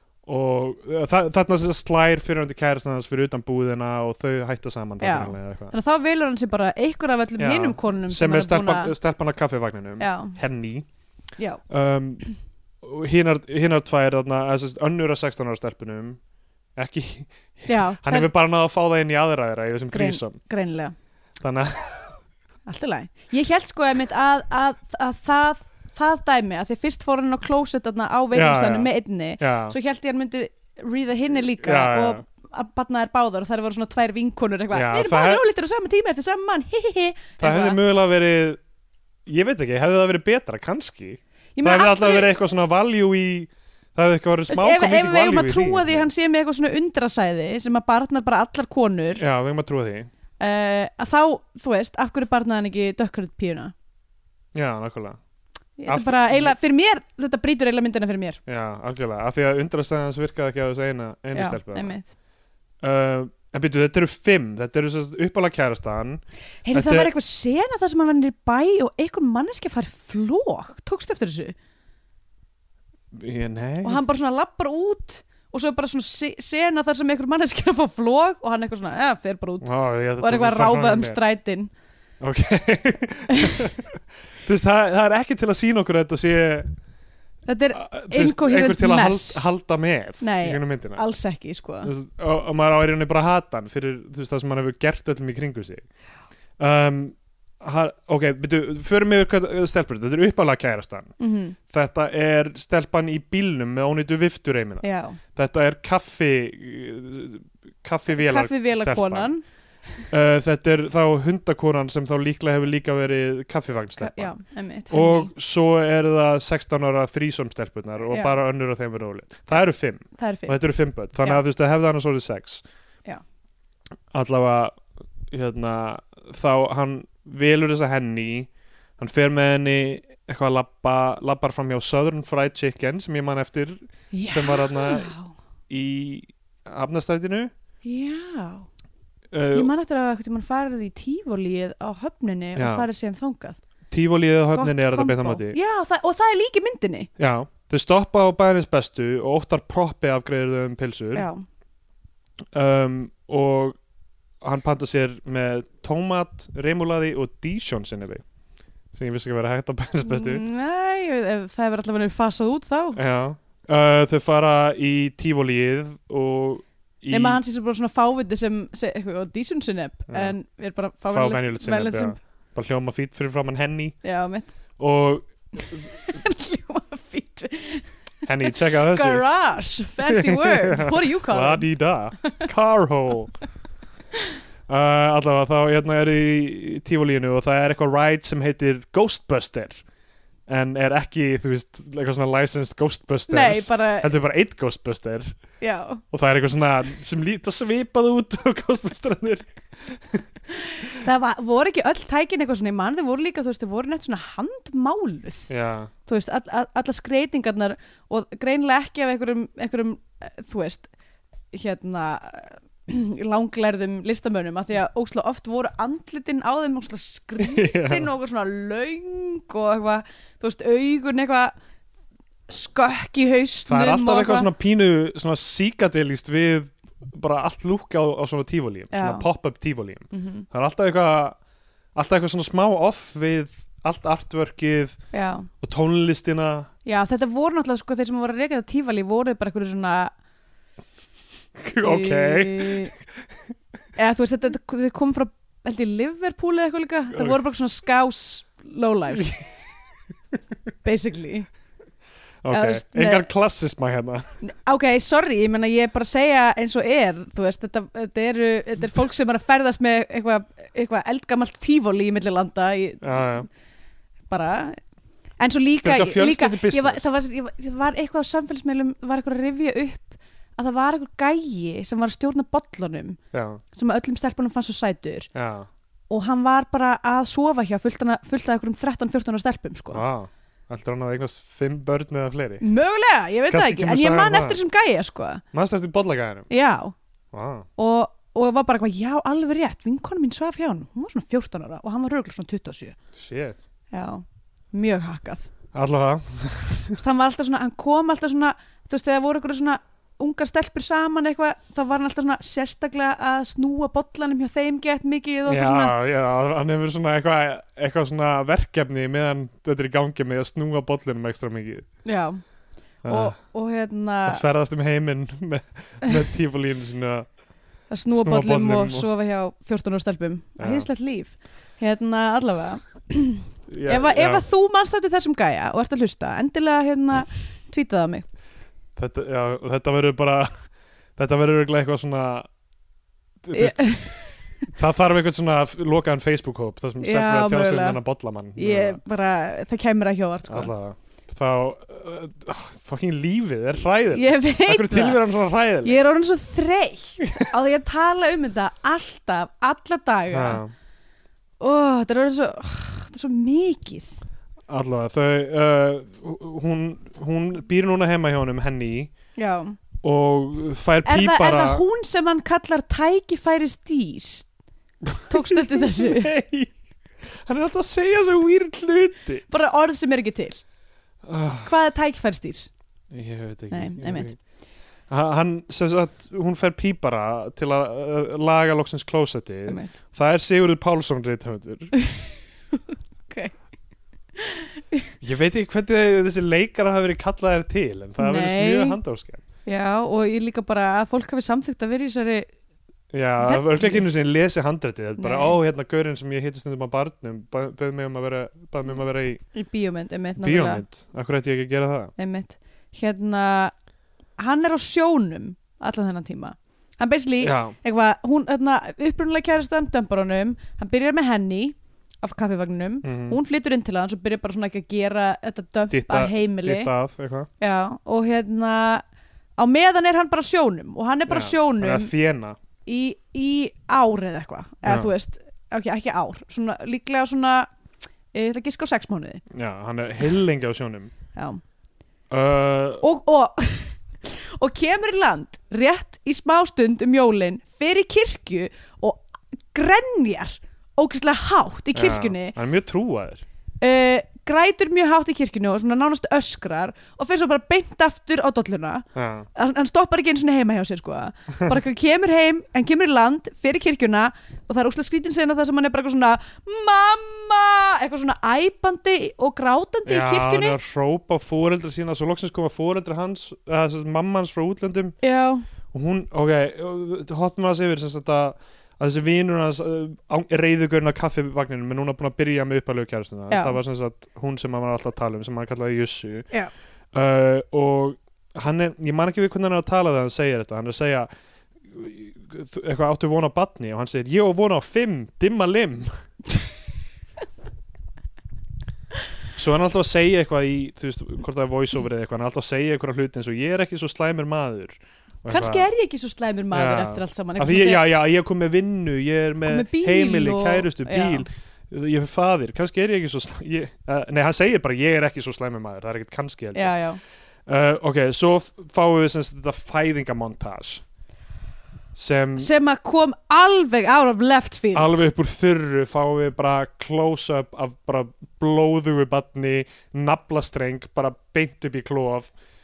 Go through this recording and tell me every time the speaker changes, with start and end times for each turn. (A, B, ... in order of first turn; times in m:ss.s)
0:00.3-0:05.7 A
0:05.0-0:08.9 B
0:07.4-0:10.9 A
0:10.0-0:10.4 B
0:11.7-0:12.3 A
0:12.8-0:16.2 A
0:16.8-0:20.4 A
0:17.7-0:18.3 B
0:19.9-0:20.9 B
0:21.4-0:22.2 A
0:22.7-0:37.8 B
0:28.3-0:29.8 A
0:31.6-0:32.2 A
0:34.7-0:35.4 A
0:37.4-0:38.6 A
0:39.3-0:46.1 A
0:41.6-0:42.3 B
0:44.5-0:49.2 B
0:49.2-0:50.1 A
0:50.4-0:53.7 B
0:54.5-0:55.2 A
0:55.8-0:58.4 B
0:55.9-0:56.6 A
0:58.5-1:01.9 A
1:01.3-1:02.1 B
1:02.8-1:06.2 A
1:06.7-1:11.6 B
1:06.7-1:07.1 A
1:13.1-1:14.0 A
1:13.8-1:19.7 B
1:19.6-1:21.2 A
1:20.2-1:21.7 B
1:22.2-1:26.7 A
1:23.3-1:23.6 B
1:27.4-1:29.5 B
1:27.7-1:31.0 A
1:30.2-1:31.9 B
1:31.8-1:35.8 A
1:36.6-1:41.1 A
1:41.2-1:41.6 B
1:41.7-1:44.8 A
1:44.8-1:45.2 B
1:45.4-1:49.3 A
1:48.1-1:49.4 B
1:50.1-1:54.3 A
1:54.0-1:55.3 B
1:54.9-2:02.6 A
1:58.1-1:58.4 B
2:00.2-2:00.6 B
2:04.1-2:04.8 A
2:05.3-2:15.1 A
2:14.1-2:15.3 B
2:15.7-2:17.5 A
2:17.8-2:18.7 B
2:19.3-2:19.7 A
2:19.5-2:23.6 B
2:22.6-2:22.9 A
2:23.9-2:25.6 A
2:24.6-2:27.1 B
2:27.2-2:31.3 A
2:31.1-2:31.4 B
2:32.5-2:33.8 A
2:34.4-2:38.2 A
2:38.9-2:40.4 A
2:40.0-2:43.0 B
2:43.0-2:47.4 A
2:47.1-2:52.2 B
2:50.1-2:50.4 A
2:51.1-2:54.0 A
2:54.0-2:54.5 B
2:54.8-2:55.9 A
2:55.6-3:01.7 B
2:58.3-2:59.2 A
3:00.1-3:03.3 A
3:04.7-3:09.8 A
3:10.5-3:15.4 A
3:13.3-3:14.1 B
3:15.6-3:16.0 B
3:16.1-3:20.2 A
3:20.6-3:25.5 B
3:25.5-3:25.9 A
3:26.1-3:30.9 B
3:31.5-3:41.6 B
3:37.4-3:38.1 A
3:42.5-3:44.5 B
3:43.7-3:51.4 A
3:48.9-3:49.3 B
3:50.1-3:50.4 B
3:52.0-3:55.0 A
3:55.1-3:55.5 B
3:55.6-3:56.7 A
3:56.8-4:00.1 B
4:01.6-4:03.0 A
4:01.8-4:02.9 B
4:04.0-4:09.4 B
4:10.8-4:11.5 B
4:12.4-4:14.3 A
4:12.5-4:13.3 B
4:14.4-4:23.4 B
4:23.0-4:23.5 A
4:24.3-4:24.8 B
4:25.4-4:33.2 B
4:25.8-4:27.1 A
4:33.3-4:33.6 A
4:33.7-4:35.3 B
4:35.4-4:35.7 A
4:36.1-4:40.0 B
4:39.9-4:42.6 A
4:42.6-4:45.4 B
4:43.5-4:44.6 A
4:45.5-4:46.5 A
4:46.5-4:47.0 B
4:47.3-4:47.7 A
4:47.8-4:53.0 B
4:53.2-4:53.6 A
4:53.9-4:55.5 B
4:55.7-4:57.0 A
4:57.0-5:06.0 B
5:05.5-5:11.9 A
5:12.0-5:12.4 B
5:13.0-5:13.4 A
5:13.1-5:14.4 B
5:14.3-5:17.3 A
5:17.9-5:28.3 B
5:18.1-5:19.1 A
5:20.6-5:20.9 A
5:23.7-5:24.4 A
5:29.0-5:30.5 A
5:31.2-5:32.5 A
5:33.4-5:39.0 A
5:33.5-5:34.7 B
5:37.0-5:38.0 B
5:38.6-5:40.7 B
5:40.5-5:46.0 A
5:44.1-5:45.2 B
5:45.8-5:50.6 B
5:50.3-5:50.7 A
5:51.6-5:54.2 B
5:54.7-5:59.1 A
5:59.4-5:59.8 B
6:00.0-6:01.8 A
6:01.0-6:04.5 B
6:05.1-6:06.7 A
6:05.3-6:06.3 B
6:07.3-6:09.4 A
6:09.5-6:10.6 B
6:11.2-6:11.7 A
6:11.6-6:12.7 B
6:13.1-6:14.4 A
6:13.7-6:14.4 B
6:15.1-6:21.9 A
6:19.7-6:20.0 B
6:22.0-6:23.6 B
6:24.4-6:25.1 B
6:25.2-6:29.4 A
6:28.2-6:29.0 B
6:29.7-6:32.5 B
6:33.1-6:39.4 A
6:33.4-6:34.0 B
6:35.2-6:35.6 B
6:39.5-6:40.8 B
6:40.4-6:42.1 A
6:42.2-6:43.7 B
6:44.4-6:56.9 B
6:47.4-6:47.7 A
6:53.0-6:53.4 A
6:55.9-6:57.5 A
6:57.6-6:59.0 B
6:59.6-7:02.1 B
7:01.3-7:02.6 A
7:02.8-7:07.7 B
7:04.8-7:05.1 A
7:08.3-7:09.4 B
7:09.5-7:11.1 A
7:11.4-7:11.6 B
7:12.3-7:13.0 A
7:13.0-7:22.6 B
7:21.9-7:23.4 A
7:23.8-7:40.8 B
7:29.1-7:29.5 A
7:40.1-7:45.1 A
7:45.2-7:45.6 B
7:45.9-7:56.5 A
7:53.5-7:53.8 B
7:57.1-8:01.3 A
8:01.9-8:06.1 A
8:09.6-8:15.9 A
8:15.4-8:18.0 B
8:16.7-8:27.0 A
8:19.6-8:21.5 B
8:26.7-8:27.2 B
8:27.7-8:31.0 A
8:32.1-8:32.7 A
8:32.6-8:35.2 B
8:34.9-8:42.5 A